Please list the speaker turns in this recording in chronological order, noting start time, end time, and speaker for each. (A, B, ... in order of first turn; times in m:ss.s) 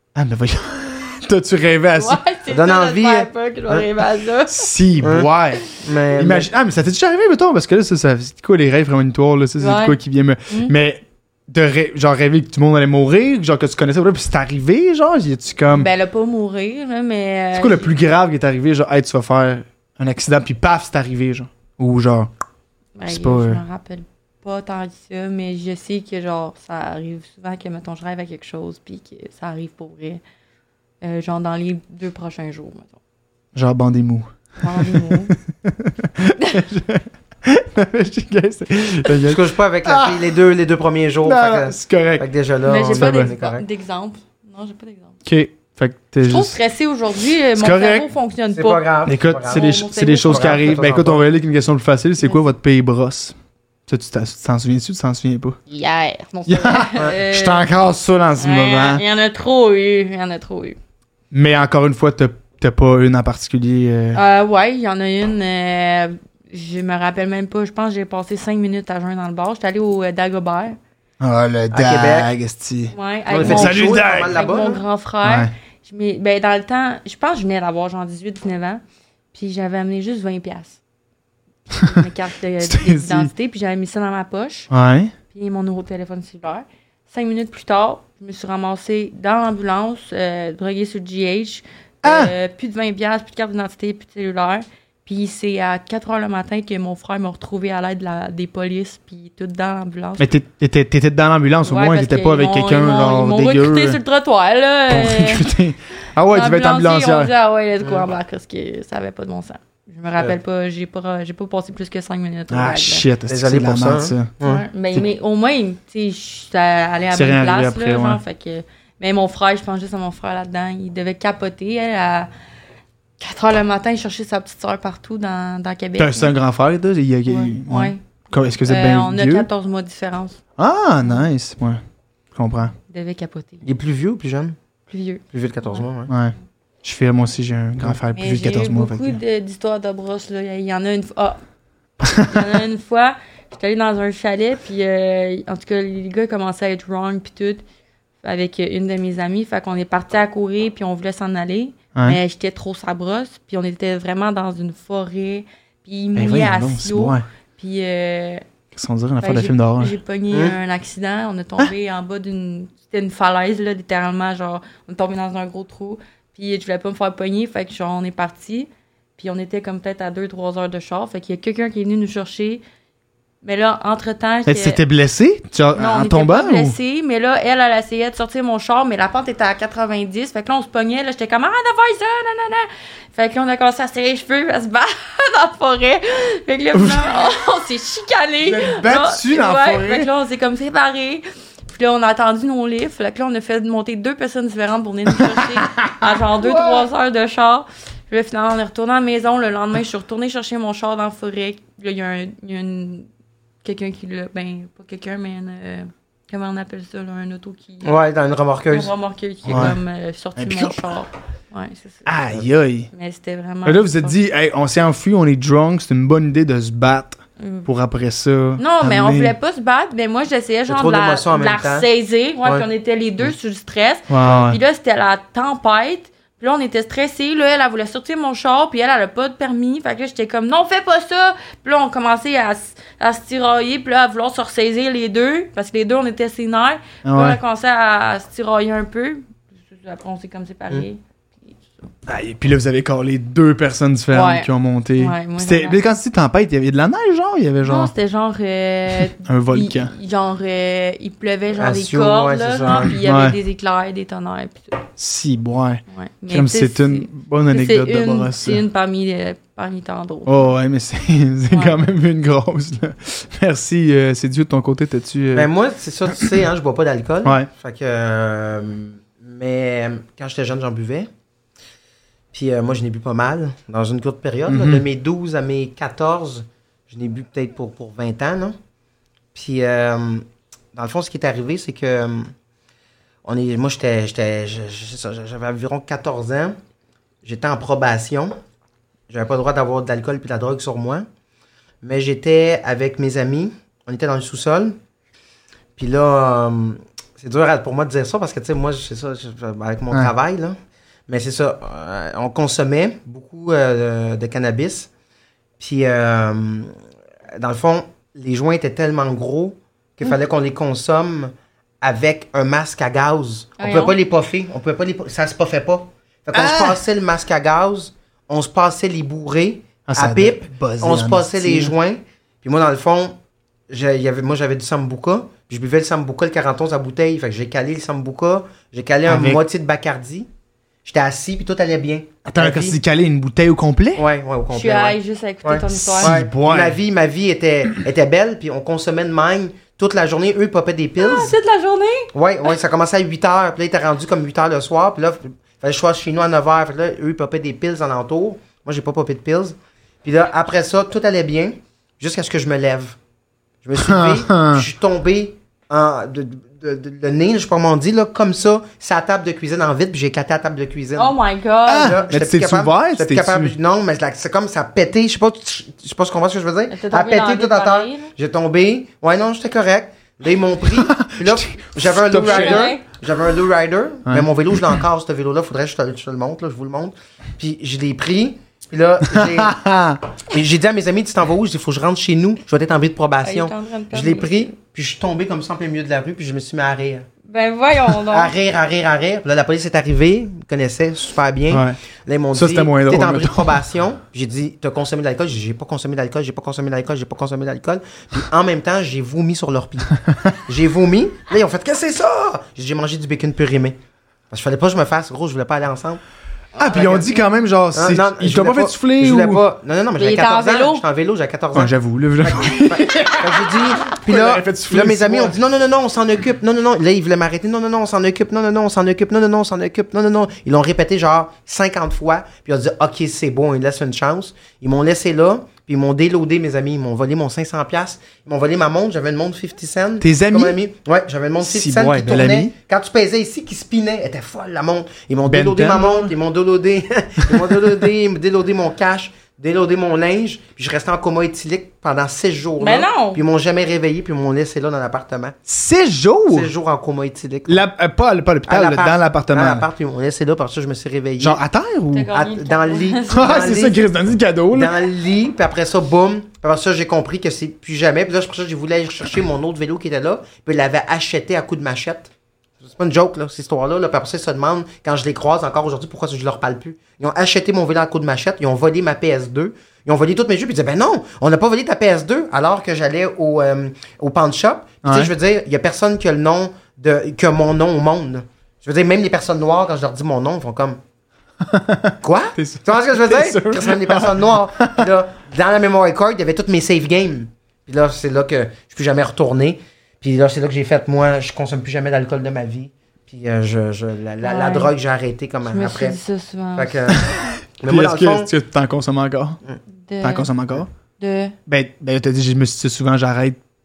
0:00.2-0:02.2 A
0:02.0-0:04.7 B
0:02.5-0:03.9 C
0:04.5-0:05.6 A
0:05.0-0:06.5 C
0:06.2-0:15.9 A
0:09.6-0:10.0 B
0:15.7-0:17.9 B
0:17.5-0:22.3 A
0:23.0-0:30.2 B
0:23.1-0:23.6 A
0:31.0-0:33.0 B
0:33.6-0:40.3 A
0:34.6-0:35.3 B
0:39.2-0:43.7 C
0:41.2-0:42.3 A
0:42.7-0:45.2 B
0:42.8-0:43.3 A
0:45.2-0:46.6 A
0:46.2-0:48.8 B
0:47.6-0:48.1 A
0:48.5-0:51.2 C
0:49.1-0:53.4 A
0:49.5-0:50.6 B
0:53.9-0:55.6 A
0:55.7-0:57.7 B
0:56.5-0:59.0 A
0:58.4-1:00.8 B
1:01.3-1:04.2 A
1:04.1-1:10.8 B
1:11.2-1:14.4 A
1:11.7-1:12.3 C
1:12.9-1:18.8 B
1:13.3-1:14.8 C
1:15.2-1:15.5 A
1:19.3-1:20.8 B
1:21.8-1:24.7 B
1:22.6-1:23.3 A
1:24.7-1:25.1 A
1:25.3-1:40.3 B
1:32.0-1:32.3 A
1:40.2-1:44.0 A
1:41.7-1:45.5 B
1:44.9-1:47.3 A
1:46.3-1:53.0 B
1:47.8-1:48.1 C
1:52.5-1:54.3 A
1:53.3-1:54.6 C
1:54.4-2:02.3 B
1:57.1-1:58.2 A
2:03.2-2:06.3 B
2:06.0-2:09.5 A
2:07.3-2:08.0 B
2:08.6-2:10.4 B
2:10.6-2:11.8 A
2:12.3-2:12.8 A
2:12.9-2:13.6 B
2:13.6-2:14.6 C
2:14.9-2:15.8 B
2:15.3-2:16.1 C
2:16.1-2:19.2 A
2:18.1-2:21.4 B
2:22.0-2:22.6 A
2:22.0-2:27.6 B
2:28.2-2:38.4 B
2:36.2-2:37.2 A
2:38.7-2:40.0 A
2:39.2-2:52.6 B
2:40.3-2:40.6 C
2:53.4-2:54.8 B
2:54.5-2:56.8 A
2:55.8-3:23.1 B
3:06.7-3:07.2 A
3:08.4-3:10.1 A
3:15.3-3:16.9 A
3:23.6-3:27.9 B
3:27.8-3:28.9 C
3:28.7-3:32.1 B
3:29.5-3:29.8 A
3:30.4-3:30.8 A
3:32.0-3:32.9 A
3:32.9-3:34.2 B
3:33.6-3:39.3 A
3:37.4-3:37.7 B
3:38.6-4:01.8 B
3:40.7-3:41.9 C
3:44.1-3:44.6 A
3:57.0-3:57.4 A
4:02.1-4:07.9 A
4:04.1-4:05.8 B
4:07.6-4:14.8 B
4:09.1-4:09.9 A
4:11.6-4:13.0 C
4:12.7-4:13.4 A
4:15.0-4:18.6 A
4:15.9-4:20.3 B
4:20.3-4:25.5 A
4:21.5-4:21.8 B
4:25.3-4:31.1 C
4:26.1-4:26.4 A
4:27.2-4:27.5 A
4:32.3-4:38.6 C
4:34.5-4:34.8 A
4:39.3-4:42.3 C
4:43.2-4:46.6 C
4:47.2-4:48.4 C
4:49.1-4:51.1 C
4:51.8-4:54.8 C
4:55.8-5:00.6 C
5:01.1-5:04.9 C
5:05.6-5:06.7 C
5:07.4-5:23.2 C
5:13.6-5:14.0 B
5:16.3-5:16.8 A
5:19.9-5:21.7 A
5:23.7-5:30.3 C
5:29.1-5:29.4 A
5:30.8-5:32.8 C
5:32.3-5:34.0 A
5:34.0-5:41.4 C
5:34.5-5:36.2 B
5:36.0-5:36.8 A
5:41.0-5:42.1 B
5:42.1-5:53.0 C
5:53.6-6:01.2 C
5:53.8-5:54.7 A
6:01.0-6:02.0 B
6:01.7-6:03.6 A
6:01.8-6:19.6 C
6:06.7-6:08.1 B
6:10.8-6:12.7 A
6:12.2-6:12.8 B
6:14.1-6:14.8 A
6:19.1-6:20.0 A
6:20.3-6:27.1 C
6:23.2-6:24.6 B
6:27.2-6:28.3 B
6:28.1-6:43.8 C
6:31.5-6:31.8 A
6:32.3-6:33.6 A
6:40.1-6:40.4 A
6:44.3-6:46.0 C
6:46.6-6:47.2 B
6:46.6-6:49.4 A
6:46.6-6:47.2 C
6:47.7-7:25.4 C
6:50.0-6:50.8 B
6:51.5-6:55.4 A
7:10.0-7:10.6 A
7:11.4-7:12.5 A
7:15.3-7:16.1 A
7:22.6-7:23.2 B
7:25.5-7:26.5 A
7:26.3-7:27.6 C
7:27.5-7:29.7 A
7:28.5-7:31.4 C
7:31.2-7:32.1 A
7:31.9-7:33.6 B
7:32.1-7:33.8 C
7:33.1-7:34.8 A
7:34.5-7:42.1 C
7:42.6-8:00.8 C
7:54.8-7:55.1 A
8:01.4-8:04.9 A
8:02.0-8:16.0 C
8:14.2-8:14.7 B
8:15.4-8:17.0 B
8:16.6-8:18.3 C
8:17.6-8:19.4 A
8:19.8-8:20.3 B
8:20.0-8:20.7 A
8:21.0-8:21.4 B
8:21.5-8:23.4 A